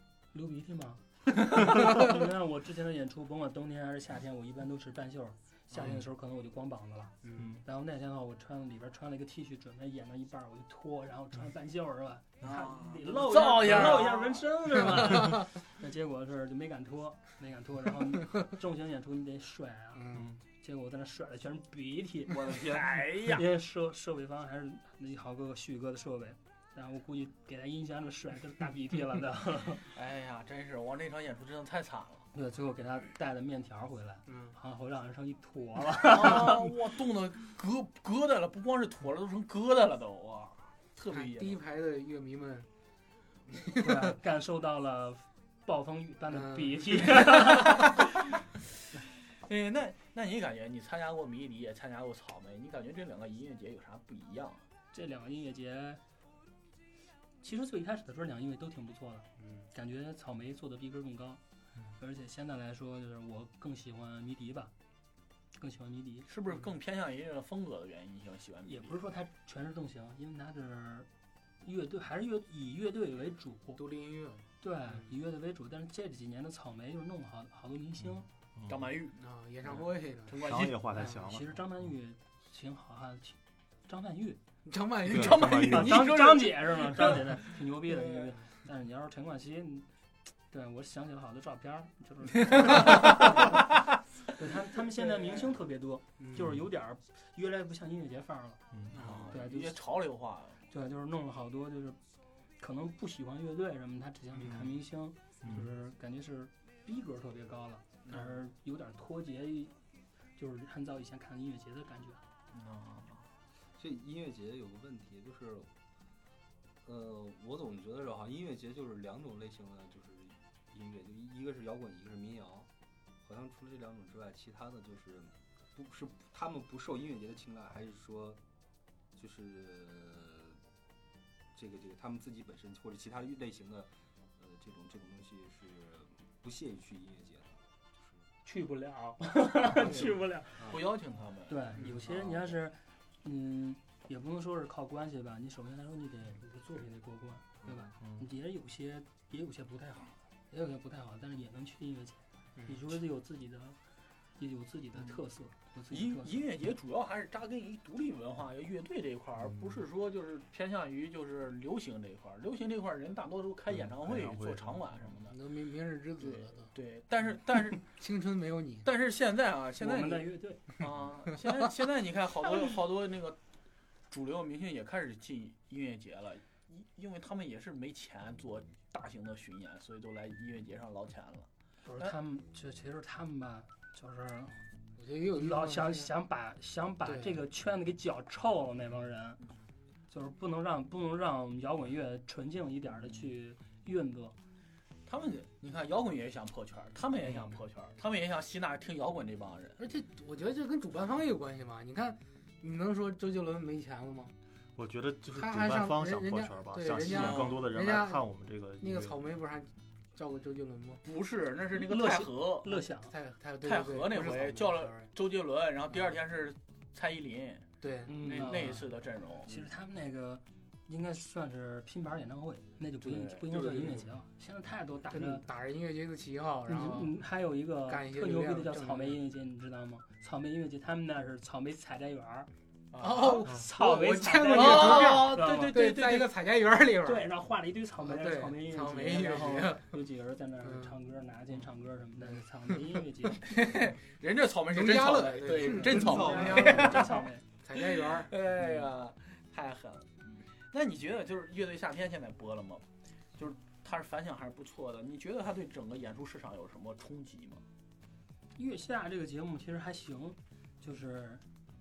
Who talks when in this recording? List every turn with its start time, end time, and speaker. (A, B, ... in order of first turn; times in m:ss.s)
0:00.3-0:22.6 A
0:07.2-0:07.6 B
0:12.4-0:14.4 C
0:19.9-0:20.4 B
0:20.1-0:20.4 D
0:22.3-0:23.0 E
0:22.5-0:23.4 C
0:23.3-0:29.9 A
0:29.9-0:32.3 C
0:32.3-0:36.7 A
0:34.2-0:34.6 B
0:36.0-0:41.6 C
0:41.1-0:42.7 B
0:43.5-0:44.1 B
0:43.7-0:48.0 A
0:46.3-0:47.4 B
0:47.7-0:48.0 C
0:49.4-0:54.6 C
0:54.9-0:56.0 A
0:57.4-1:01.4 A
0:59.4-0:59.7 B
1:02.0-1:04.7 A
1:05.5-1:06.3 A
1:06.3-1:09.0 C
1:08.6-1:11.1 A
1:11.6-1:13.8 A
1:13.8-1:15.0 B
1:14.6-1:18.3 A
1:18.6-1:18.9 D
1:18.7-1:20.8 C
1:19.1-1:20.4 B
1:20.4-1:21.6 D
1:21.0-1:21.2 B
1:21.1-1:24.4 A
1:24.6-1:25.8 B
1:25.0-1:27.1 C
1:25.1-1:26.1 D
1:25.7-1:29.9 A
1:30.5-1:33.7 A
1:34.3-1:38.6 A
1:36.2-1:36.5 B
1:38.7-1:39.0 D
1:38.9-1:39.3 B
1:39.0-1:40.6 C
1:39.3-1:39.8 A
1:40.7-1:42.0 A
1:42.6-1:49.7 A
1:44.3-1:44.7 B
1:45.4-1:45.7 D
1:50.4-1:52.2 A
1:52.5-1:53.3 C
1:53.8-1:55.7 E
1:56.8-2:02.7 E
2:03.2-2:08.4 E
2:09.2-2:10.6 E
2:11.5-2:18.2 E
2:18.4-2:20.7 A
2:20.6-2:22.5 C
2:21.5-2:33.8 A
2:21.8-2:22.1 B
2:27.6-2:27.9 E
2:32.6-2:32.9 B
2:34.4-2:36.4 A
2:35.9-2:45.4 C
2:39.4-2:39.8 D
2:43.7-2:45.0 D
2:45.2-2:46.7 B
2:46.2-2:47.8 C
2:47.8-2:48.9 B
2:48.8-2:53.4 C
2:49.8-2:50.7 A
2:54.1-3:01.5 C
3:01.8-3:04.6 A
3:05.0-3:06.1 B
3:05.3-3:09.4 A
3:07.0-3:07.4 B
3:10.1-3:14.4 A
3:15.0-3:19.8 C
3:19.8-3:24.3 B
3:24.8-3:29.3 D
3:25.3-3:28.2 B
3:27.0-3:27.6 C
3:28.8-3:31.0 B
3:31.0-3:32.7 C
3:31.8-3:33.1 A
3:32.7-3:35.1 B
3:33.6-3:37.7 C
3:35.9-3:36.2 B
3:37.8-3:38.6 B
3:38.0-3:38.9 A
3:38.2-3:39.6 C
3:39.4-3:45.4 A
3:43.0-3:43.4 C
3:43.5-3:44.0 E
3:45.1-3:47.2 B
3:46.7-3:52.5 A
3:47.8-3:49.2 B
3:52.9-3:53.4 C
3:53.0-3:57.3 B
3:53.3-3:55.8 A
3:54.5-3:56.3 C
3:57.0-4:03.5 A
3:58.0-4:00.0 B
4:00.6-4:01.0 B
4:02.2-4:03.9 B
4:03.5-4:12.8 C
4:04.7-4:08.3 B
4:05.7-4:07.4 A
4:13.4-4:17.6 C
4:18.6-4:21.4 A